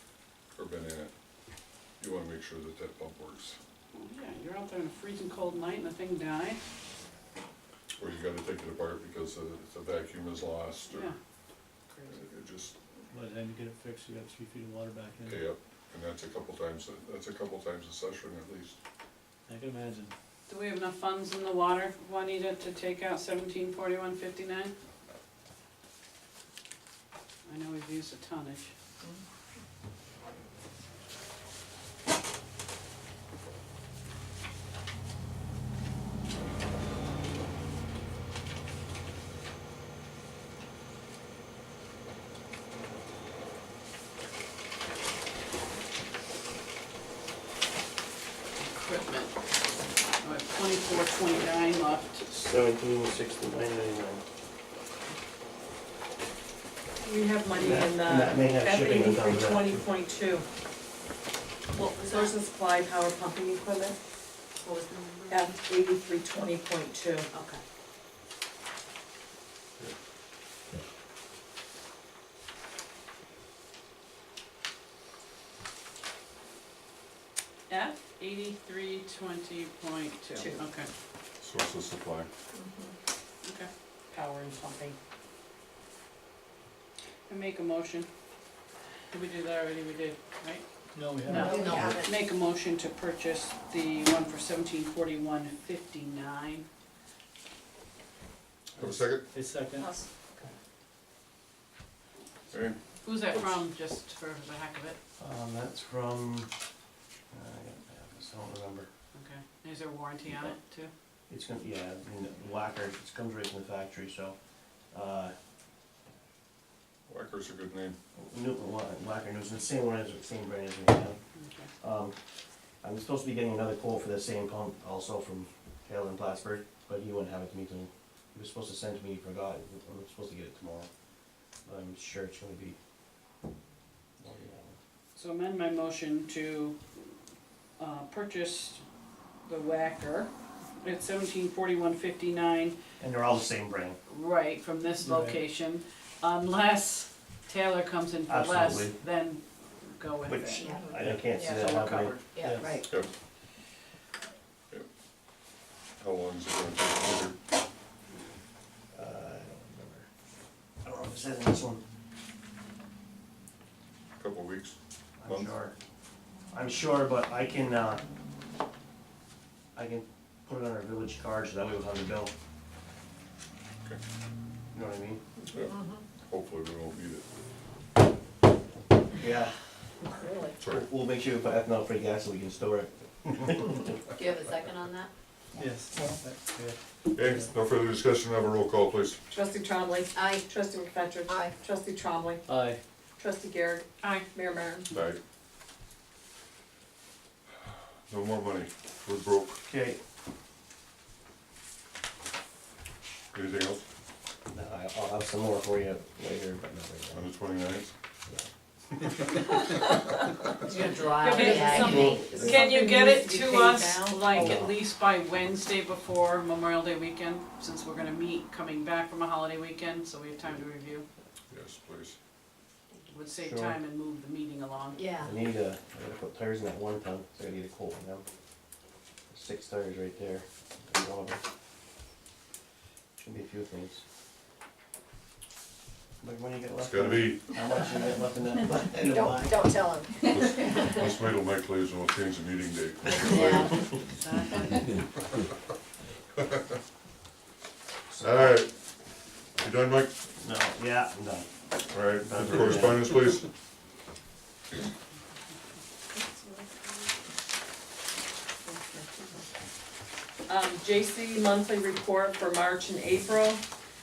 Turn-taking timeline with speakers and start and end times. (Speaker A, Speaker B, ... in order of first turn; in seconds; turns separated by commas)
Speaker A: 0.5-1.1, Speaker A: 2.0-3.6, Speaker B: 3.9-6.6, Speaker A: 8.0-11.1, Speaker B: 10.9-11.2, Speaker B: 11.9-12.2, Speaker A: 12.0-12.8, Speaker C: 13.1-15.5, Speaker A: 15.2-18.8, Speaker C: 19.5-20.1, Speaker B: 20.5-24.7, Speaker B: 27.4-28.7, Speaker B: 48.6-49.4, Speaker B: 50.2-52.2, Speaker D: 52.3-54.2, Speaker E: 57.0-60.4, Speaker D: 57.5-59.9, Speaker F: 61.7-62.3, Speaker E: 62.0-64.0, Speaker F: 64.6-65.5, Speaker E: 65.3-67.3, Speaker F: 67.3-67.6, Speaker B: 77.7-80.9, Speaker E: 80.3-80.6, Speaker A: 81.4-82.3, Speaker F: 82.6-82.9, Speaker B: 83.4-83.7, Speaker E: 84.1-85.0, Speaker B: 87.3-88.1, Speaker B: 89.1-90.6, Speaker C: 90.9-91.5, Speaker B: 91.2-96.7, Speaker F: 91.3-92.1, Speaker A: 98.8-99.3, Speaker C: 98.8-99.9, Speaker E: 99.8-100.5, Speaker A: 102.5-102.8, Speaker B: 103.0-105.0, Speaker D: 105.2-106.5, Speaker D: 107.3-108.9, Speaker B: 109.1-110.9, Speaker D: 110.3-110.5, Speaker D: 111.3-114.4, Speaker D: 114.9-115.3, Speaker A: 117.0-118.0, Speaker D: 118.1-121.2, Speaker B: 121.3-121.7, Speaker D: 121.8-122.2, Speaker D: 122.8-130.9, Speaker D: 131.5-132.8, Speaker D: 134.2-134.7, Speaker B: 135.1-137.0, Speaker B: 137.8-138.8, Speaker B: 139.4-142.7, Speaker D: 143.0-144.0, Speaker B: 144.1-152.4, Speaker C: 145.0-145.4, Speaker D: 148.3-149.0, Speaker D: 150.2-152.3, Speaker F: 150.5-150.9, Speaker C: 150.9-151.3, Speaker F: 152.3-152.9, Speaker C: 152.3-152.8, Speaker A: 156.0-157.3, Speaker D: 158.9-160.1, Speaker D: 160.8-161.8, Speaker A: 164.2-165.5, Speaker D: 165.2-165.7, Speaker D: 166.5-168.0, Speaker D: 169.7-172.3, Speaker D: 174.7-175.2, Speaker A: 175.5-177.2, Speaker F: 175.7-176.0, Speaker D: 179.2-179.6, Speaker F: 180.2-180.5, Speaker A: 180.6-180.8, Speaker D: 180.6-184.0, Speaker F: 184.2-185.1, Speaker C: 185.6-187.5, Speaker A: 187.1-189.2, Speaker E: 189.3-192.4, Speaker F: 190.1-190.4, Speaker F: 191.3-191.6, Speaker C: 192.4-192.8, Speaker E: 193.2-194.9, Speaker A: 194.9-195.2, Speaker A: 198.1-199.6, Speaker D: 199.7-200.0, Speaker A: 203.3-203.8, Speaker D: 204.5-207.3, Speaker A: 207.1-207.9, Speaker F: 210.7-212.4, Speaker B: 210.7-221.1, Speaker E: 211.2-214.6, Speaker D: 211.7-212.6, Speaker D: 214.3-214.8, Speaker A: 221.5-222.2, Speaker B: 223.1-225.1, Speaker D: 223.3-223.8, Speaker F: 224.9-225.3, Speaker D: 225.2-228.2, Speaker D: 229.3-231.4, Speaker D: 233.2-234.0, Speaker D: 236.2-239.9, Speaker A: 236.8-237.5, Speaker F: 239.1-240.9, Speaker A: 240.3-243.9, Speaker F: 243.1-244.7, Speaker B: 244.2-244.6, Speaker D: 248.1-248.6, Speaker A: 248.2-248.7, Speaker A: 249.6-250.1, Speaker D: 250.4-251.5, Speaker A: 251.9-253.5, Speaker D: 252.0-253.2, Speaker E: 256.1-257.1, Speaker E: 258.6-259.1, Speaker E: 260.4-263.6